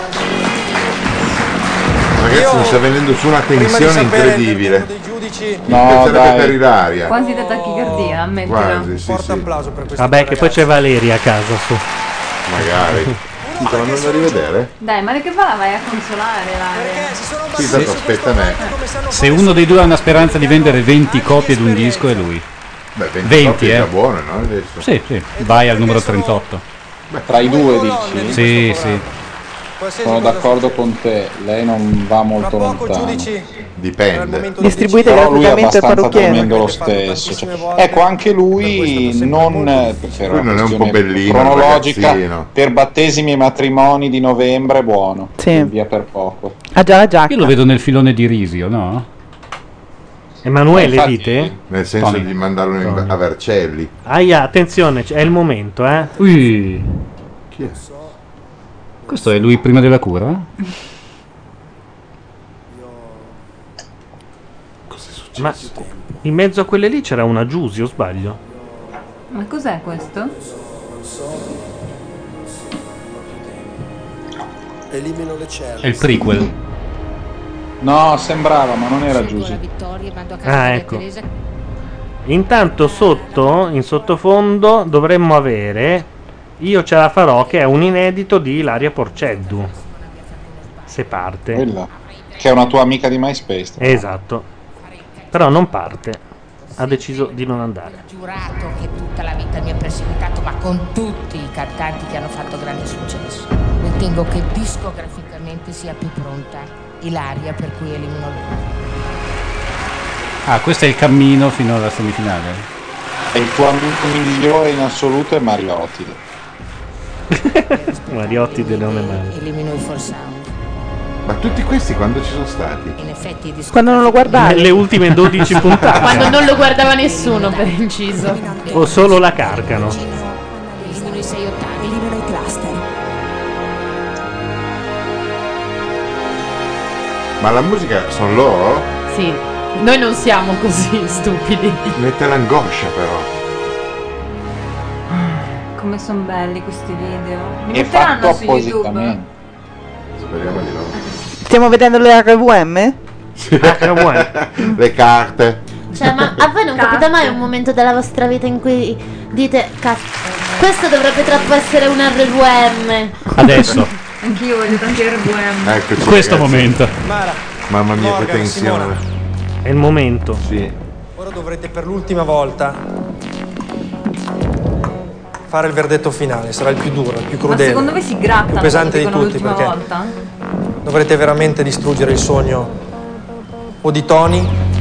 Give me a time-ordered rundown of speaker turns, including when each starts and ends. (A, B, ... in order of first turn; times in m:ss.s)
0:02.2-0:04.9 A
0:02.3-0:02.8 B
0:03.6-0:05.6 B
0:05.7-0:06.6 C
0:05.7-0:07.2 A
0:07.1-0:08.9 D
0:07.2-0:08.3 B
0:08.4-0:09.5 A
0:09.0-0:10.7 B
0:10.0-0:11.8 E
0:12.5-0:14.7 A
0:13.4-0:14.5 B
0:14.8-0:17.2 D
0:16.7-0:22.2 B
0:17.5-0:18.6 A
0:19.1-0:22.4 F
0:23.0-0:24.8 A
0:23.2-0:23.9 F
0:24.8-0:26.6 F
0:25.4-0:26.4 B
0:27.1-0:27.4 A
0:27.3-0:28.4 C
0:27.3-0:29.1 B
0:28.3-0:29.0 F
0:29.8-0:30.8 B
0:30.0-0:33.3 C
0:32.4-0:33.4 B
0:33.8-0:34.5 A
0:34.1-0:40.2 B
0:34.6-0:36.6 G
0:35.0-0:46.6 C
0:40.3-0:42.5 A
0:45.4-0:45.7 G
0:46.7-0:47.5 G
0:47.3-0:49.0 F
0:50.4-0:51.5 E
0:50.7-0:51.5 C
0:51.7-0:53.9 A
0:52.0-0:52.3 F
0:52.8-0:53.1 E
0:54.0-0:56.1 E
0:56.2-0:56.9 F
0:57.7-0:58.2 H
0:59.1-1:00.4 F
1:04.9-1:05.8 A
1:05.4-1:05.6 E
1:06.2-1:08.4 E
1:09.3-1:10.3 D
1:10.4-1:11.5 H
1:14.9-1:16.3 H
1:15.8-1:16.5 F
1:17.8-1:19.6 C
1:19.1-1:21.2 I
1:20.4-1:21.0 E
1:22.2-1:26.1 E
1:26.6-1:29.7 E
1:30.9-1:31.6 E
1:31.5-1:34.0 C
1:33.8-1:34.4 E
1:35.3-1:36.2 E
1:36.8-1:38.0 E
1:37.9-1:48.6 I
1:50.5-1:52.6 F
1:53.3-1:56.2 C
1:57.4-1:59.3 E
1:57.7-2:00.5 I
2:01.2-2:03.0 A
2:03.0-2:04.8 I
2:03.7-2:04.8 G
2:04.4-2:06.4 E
2:05.4-2:12.1 I
2:06.0-2:08.4 J
2:08.7-2:10.0 E
2:17.4-2:18.9 A
2:19.1-2:22.0 J
2:21.9-2:23.3 A
2:25.7-2:29.2 D
2:27.7-2:29.3 C
2:30.2-2:30.9 A
2:31.4-2:33.0 G
2:33.4-2:35.6 A
2:33.6-2:34.3 E
2:35.9-2:43.2 J
2:36.7-2:37.4 D
2:43.4-2:43.9 E
2:43.5-2:43.8 F
2:44.2-2:45.8 D
2:45.6-2:46.8 A
2:46.0-2:46.9 F
2:47.0-2:47.4 B
2:47.7-2:49.0 A
2:48.0-2:48.9 B
2:49.6-2:50.4 E
2:50.4-2:50.7 A
2:51.2-2:52.8 B
2:55.5-2:57.9 B
2:57.4-3:00.1 D
2:58.5-2:59.7 B
3:00.8-3:02.7 B
3:03.8-3:04.5 B